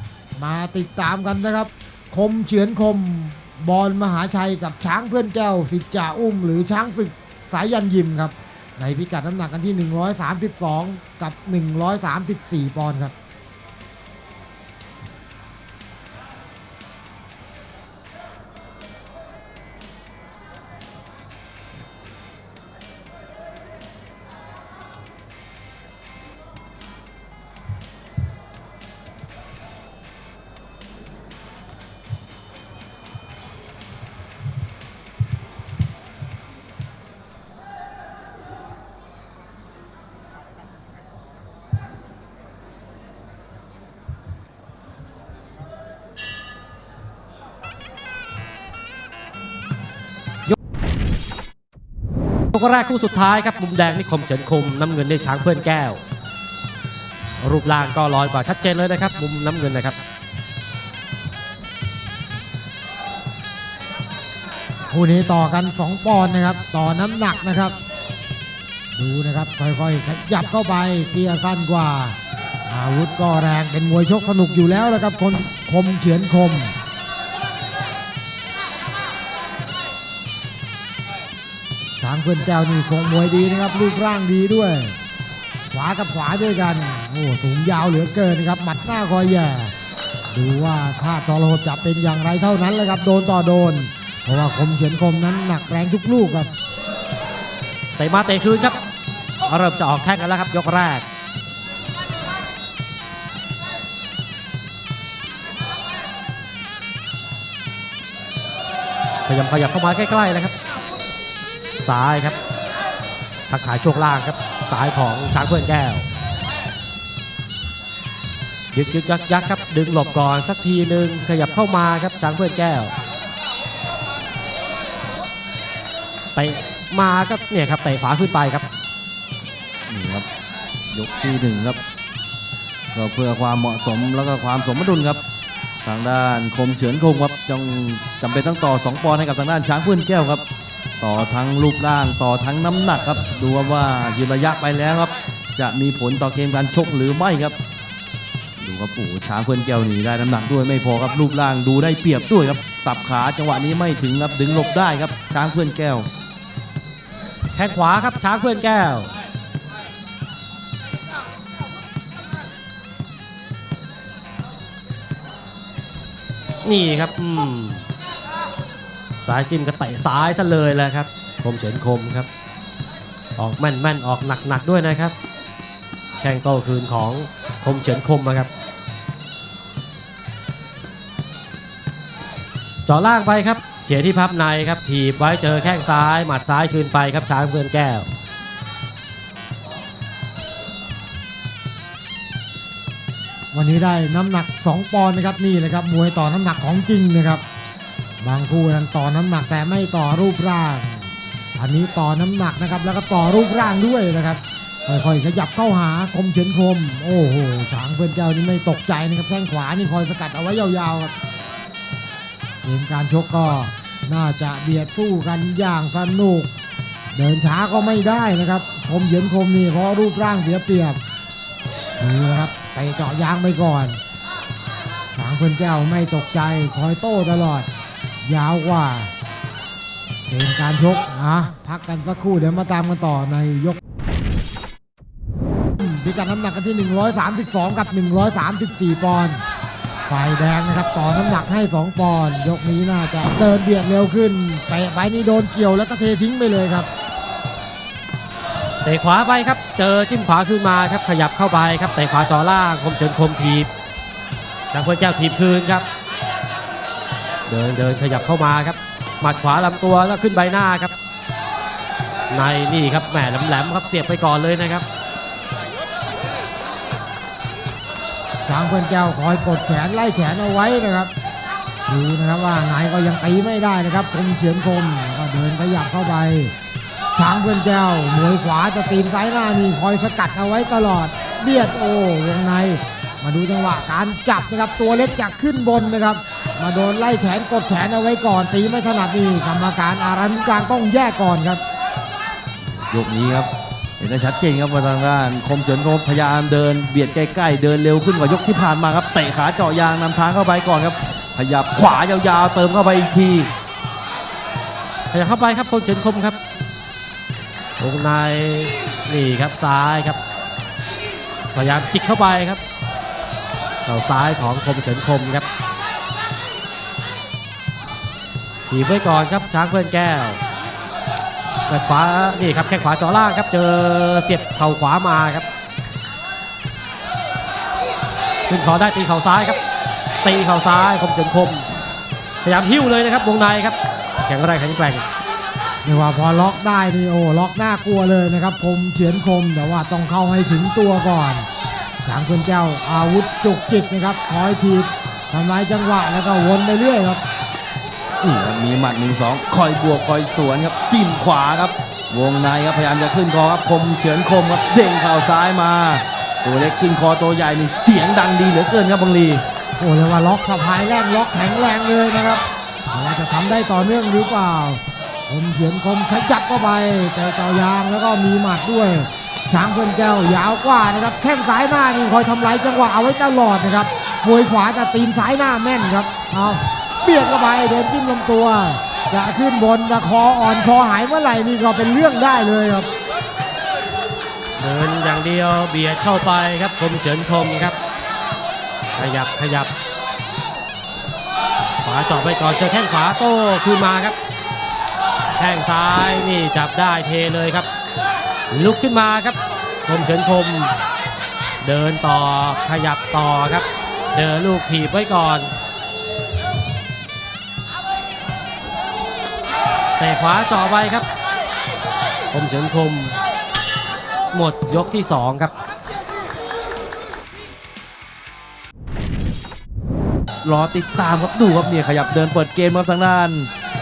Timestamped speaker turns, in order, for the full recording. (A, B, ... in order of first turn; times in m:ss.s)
0:00.4-0:13.1 A
0:52.5-0:56.0 B
0:57.4-1:00.0 B
1:04.9-1:07.8 A
1:09.0-1:12.2 A
1:12.7-1:16.8 A
1:22.0-1:25.0 A
1:25.7-1:29.7 A
1:30.3-1:36.5 A
1:38.0-1:38.8 B
1:39.4-1:41.1 B
1:49.2-1:50.5 B
1:51.8-1:52.4 B
1:53.5-1:56.1 B
1:58.7-2:02.9 B
2:06.4-2:08.7 B
2:09.9-2:10.3 C
2:10.9-2:11.8 C
2:13.0-2:15.2 C
2:15.8-2:20.4 C
2:21.0-2:27.6 C
2:28.6-2:36.1 C
2:37.5-2:39.1 B
2:46.6-2:47.9 B
2:49.2-2:52.3 B
2:53.4-2:55.2 B
2:56.2-2:58.5 B
3:02.9-3:08.1 B
3:13.5-3:17.4 A
3:18.2-3:31.1 A
3:32.6-3:36.5 A
3:37.1-3:41.0 A
3:42.0-3:44.0 A
3:45.2-3:47.7 A
3:48.2-3:49.1 A
3:50.3-3:53.8 A
3:55.8-3:59.4 A
4:00.1-4:06.9 A
4:08.8-4:13.7 B
4:14.7-4:15.9 B
4:17.5-4:21.0 B
4:22.3-4:24.9 B
4:28.5-4:31.1 A
4:31.9-4:36.5 A
4:37.2-4:51.6 A
4:52.6-5:03.5 C
5:05.1-5:06.4 B
5:07.8-5:10.2 B
5:11.5-5:12.6 B
5:13.8-5:15.5 B
5:18.7-5:20.4 B
5:21.7-5:25.5 B
5:28.5-5:29.6 B
5:30.2-5:31.6 B
5:32.4-5:35.1 B
5:35.8-5:41.5 A
5:42.0-5:47.2 A
5:48.2-5:59.4 C
5:59.8-6:22.9 A
6:24.6-6:27.8 B
6:29.0-6:29.7 B
6:31.8-6:34.2 B
6:35.4-6:37.7 B
6:38.5-6:40.8 B
6:41.6-6:45.5 B
6:50.0-6:51.1 B
6:52.3-6:53.2 B
6:54.3-6:55.5 B
7:00.4-7:03.5 C